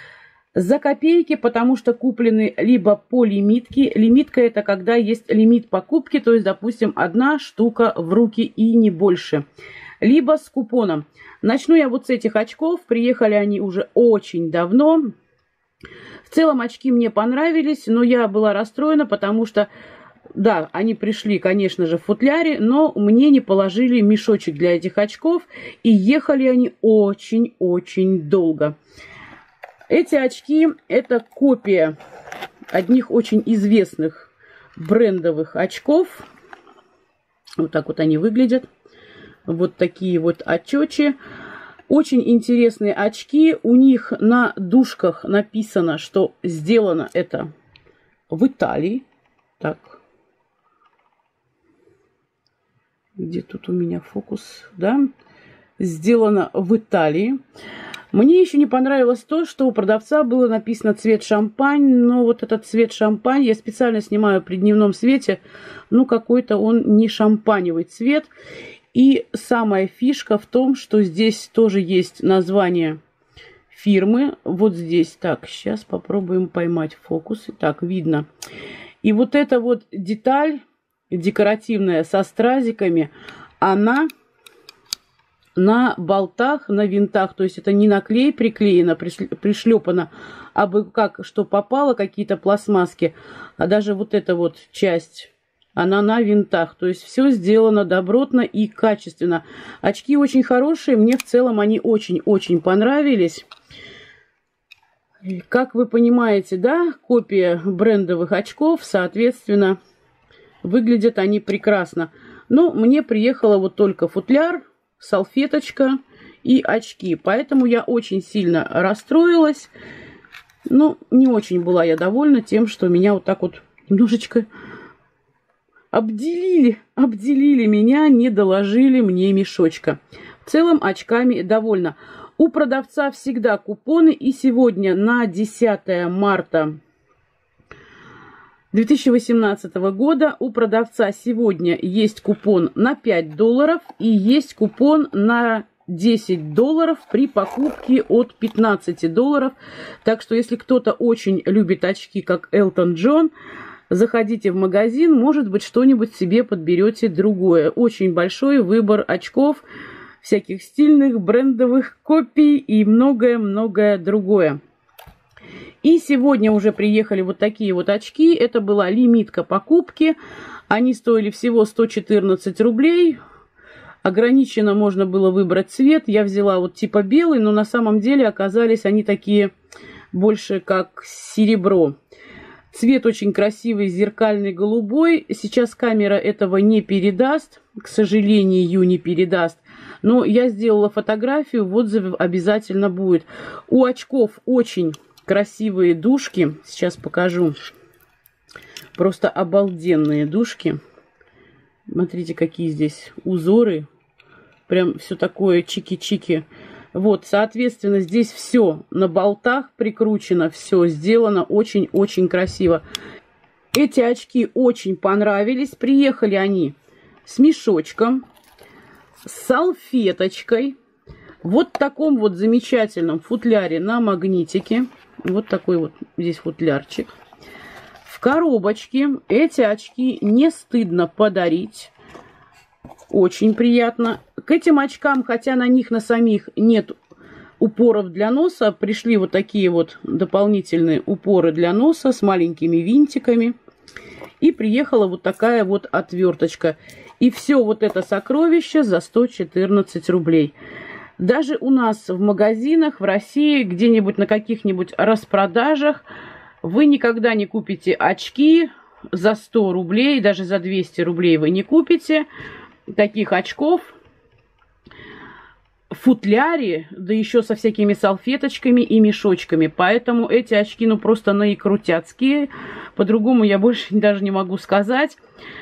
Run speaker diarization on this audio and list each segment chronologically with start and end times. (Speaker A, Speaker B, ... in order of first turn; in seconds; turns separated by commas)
Speaker A: 0.6-9.4, Speaker A: 10.0-15.1, Speaker A: 16.2-19.7, Speaker A: 20.3-28.8, Speaker A: 29.9-31.9, Speaker A: 32.7-36.3, Speaker A: 37.6-38.7, Speaker A: 39.5-41.2, Speaker A: 41.9-47.5, Speaker A: 48.3-49.0, Speaker A: 49.6-50.0, Speaker A: 53.2-55.1, Speaker A: 55.8-57.4, Speaker A: 58.1-65.4, Speaker A: 65.9-68.3, Speaker A: 68.9-73.0, Speaker A: 73.7-78.3, Speaker A: 79.0-84.1, Speaker A: 85.6-103.5, Speaker A: 105.2-109.8, Speaker A: 110.6-119.7, Speaker A: 120.7-124.5, Speaker A: 125.9-136.8, Speaker A: 138.7-153.3, Speaker A: 153.9-159.6, Speaker A: 160.2-164.6, Speaker A: 165.8-170.2, Speaker A: 170.7-173.2, Speaker A: 174.0-179.5, Speaker A: 180.1-182.0, Speaker A: 182.7-197.6, Speaker A: 199.0-200.8, Speaker A: 201.9-203.9, Speaker A: 204.7-212.8, Speaker A: 213.7-216.8, Speaker A: 217.3-218.2, Speaker A: 219.2-220.8, Speaker A: 221.4-227.1, Speaker A: 228.1-231.9, Speaker A: 233.1-236.9, Speaker A: 237.6-243.6, Speaker A: 244.4-250.5, Speaker A: 251.2-256.0, Speaker A: 256.6-262.3, Speaker A: 262.9-263.9, Speaker A: 265.9-275.2